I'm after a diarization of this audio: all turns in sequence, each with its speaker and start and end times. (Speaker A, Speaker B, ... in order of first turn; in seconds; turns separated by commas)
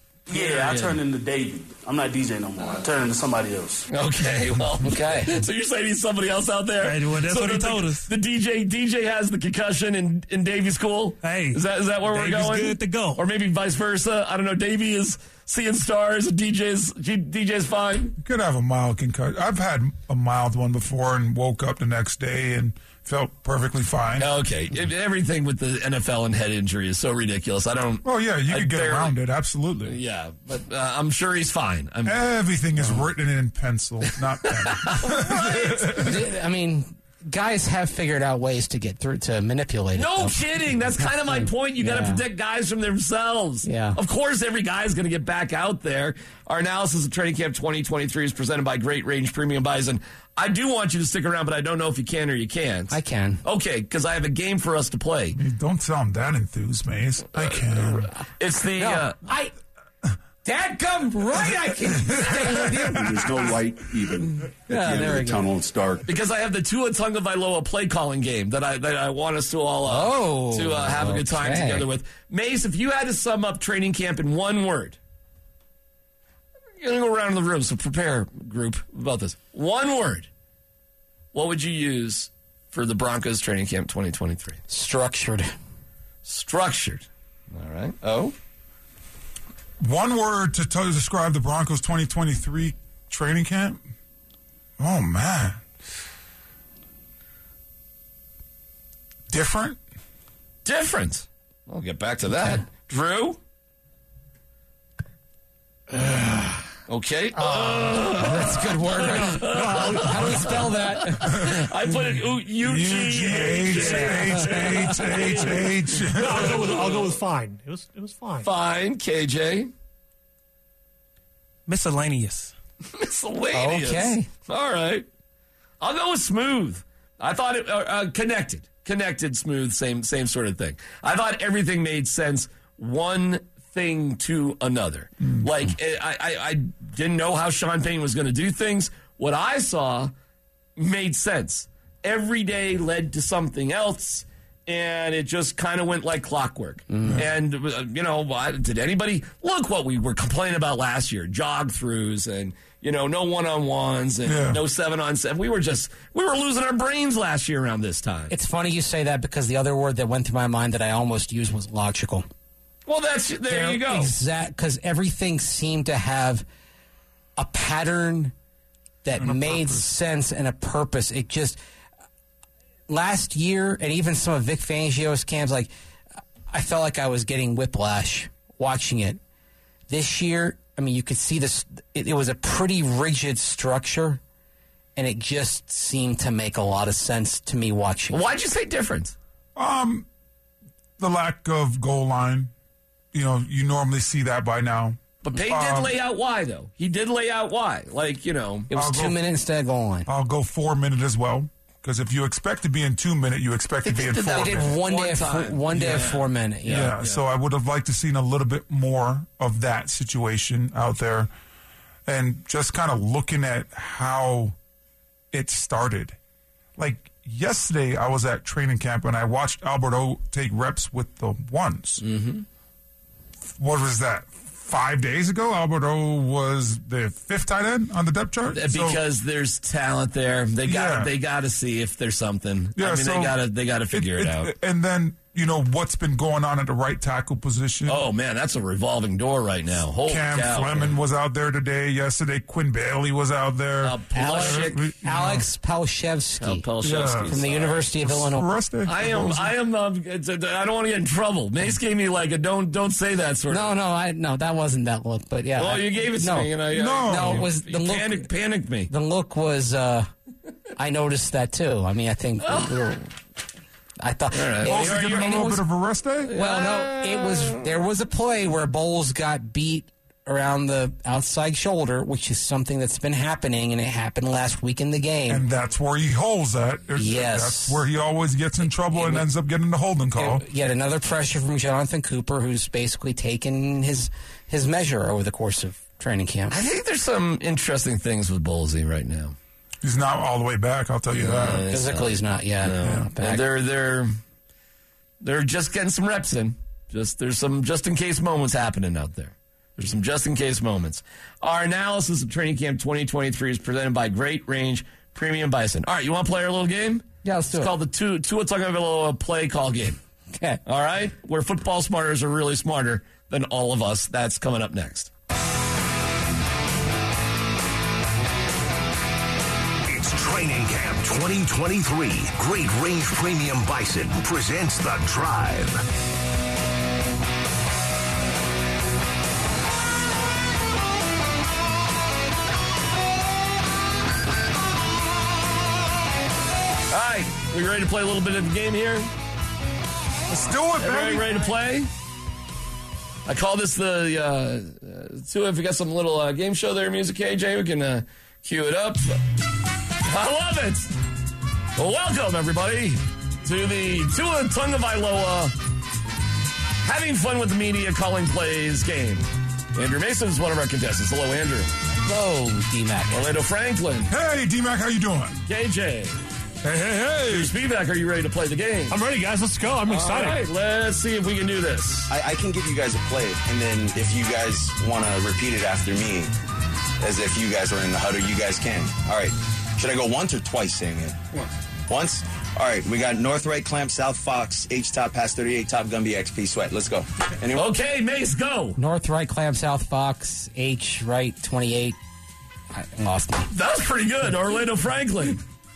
Speaker A: 0.3-3.9, Speaker B: 0.3-1.0, Speaker B: 3.9-18.2, Speaker C: 4.8-5.4, Speaker D: 6.8-8.1, Speaker D: 11.2-13.2, Speaker E: 18.2-24.3, Speaker B: 24.2-29.2, Speaker E: 28.0-30.0, Speaker B: 29.9-32.2, Speaker E: 32.1-36.2, Speaker B: 34.5-35.9, Speaker C: 35.1-40.4, Speaker B: 40.0-55.4, Speaker C: 41.0-42.2, Speaker C: 43.6-44.0, Speaker C: 52.9-53.4, Speaker E: 55.4-58.1, Speaker B: 57.4-59.2, Speaker C: 58.8-59.5, Speaker C: 60.4-63.3, Speaker F: 62.8-66.1, Speaker C: 64.7-65.5, Speaker B: 66.1-75.0, Speaker C: 69.8-71.9, Speaker B: 76.8-80.3, Speaker B: 81.3-84.6, Speaker C: 84.7-85.5, Speaker B: 86.2-88.3, Speaker E: 89.8-93.8, Speaker E: 94.8-95.6, Speaker E: 99.3-99.8, Speaker B: 100.7-103.4, Speaker B: 106.9-117.2, Speaker C: 107.4-111.5, Speaker G: 107.6-108.1, Speaker G: 109.0-110.4, Speaker E: 111.3-111.6, Speaker E: 112.6-116.7, Speaker G: 115.0-118.5, Speaker B: 118.4-119.7, Speaker D: 121.7-122.5, Speaker B: 122.8-125.1, Speaker C: 123.5-124.3, Speaker B: 125.8-140.1, Speaker B: 140.8-158.3, Speaker C: 146.9-147.2, Speaker E: 154.3-154.6, Speaker C: 158.3-162.3, Speaker B: 162.9-164.1, Speaker C: 163.5-166.4, Speaker C: 167.4-168.3, Speaker C: 169.0-171.6, Speaker E: 169.2-169.9, Speaker C: 172.9-175.7, Speaker C: 176.5-179.2, Speaker C: 179.9-184.2, Speaker C: 185.0-188.2, Speaker B: 188.1-189.2, Speaker E: 189.6-190.1, Speaker E: 191.0-192.5, Speaker E: 193.1-196.0, Speaker B: 195.2-198.7, Speaker C: 198.7-200.1, Speaker E: 198.7-199.2, Speaker E: 200.1-204.7, Speaker B: 203.8-207.2, Speaker C: 204.3-207.0, Speaker E: 206.7-211.3, Speaker E: 212.1-214.6, Speaker E: 215.3-216.2, Speaker E: 216.8-222.0, Speaker B: 222.0-222.4, Speaker E: 223.6-229.0, Speaker B: 228.5-234.5, Speaker E: 230.7-231.1, Speaker E: 232.8-238.1, Speaker B: 237.9-241.0, Speaker E: 240.1-245.5, Speaker B: 243.8-244.9, Speaker C: 244.1-246.7, Speaker B: 246.4-247.9, Speaker E: 246.8-247.4, Speaker C: 247.2-248.5, Speaker E: 248.0-249.5, Speaker B: 248.9-253.7, Speaker C: 253.5-258.3, Speaker B: 255.6-258.9, Speaker E: 256.7-257.5, Speaker C: 258.9-260.1, Speaker C: 260.8-263.1, Speaker B: 262.4-262.9, Speaker C: 264.0-265.6, Speaker B: 264.3-265.5, Speaker E: 264.6-266.3, Speaker B: 266.3-267.6, Speaker C: 266.3-275.4, Speaker E: 275.3-280.4, Speaker C: 276.9-277.8, Speaker C: 279.0-279.2, Speaker C: 280.1-286.6, Speaker B: 286.5-289.4, Speaker E: 289.8-291.6, Speaker B: 291.1-294.2, Speaker C: 291.6-293.4, Speaker B: 295.2-310.0, Speaker C: 307.2-307.7, Speaker B: 310.6-315.1, Speaker H: 319.9-325.8, Speaker B: 336.9-339.1, Speaker E: 340.3-341.5, Speaker B: 340.8-341.9, Speaker B: 343.3-349.2, Speaker B: 350.0-350.9, Speaker B: 351.8-355.5, Speaker B: 356.8-361.7, Speaker C: 362.0-363.3, Speaker B: 363.1-364.1, Speaker E: 364.1-365.4, Speaker B: 365.5-366.2, Speaker E: 366.6-367.4, Speaker B: 367.2-369.0, Speaker G: 368.9-370.5, Speaker B: 369.9-372.1, Speaker I: 372.1-376.3, Speaker I: 377.0-381.2, Speaker I: 381.9-387.7, Speaker B: 387.5-388.8, Speaker C: 388.8-392.0, Speaker C: 392.7-393.5, Speaker B: 393.5-395.4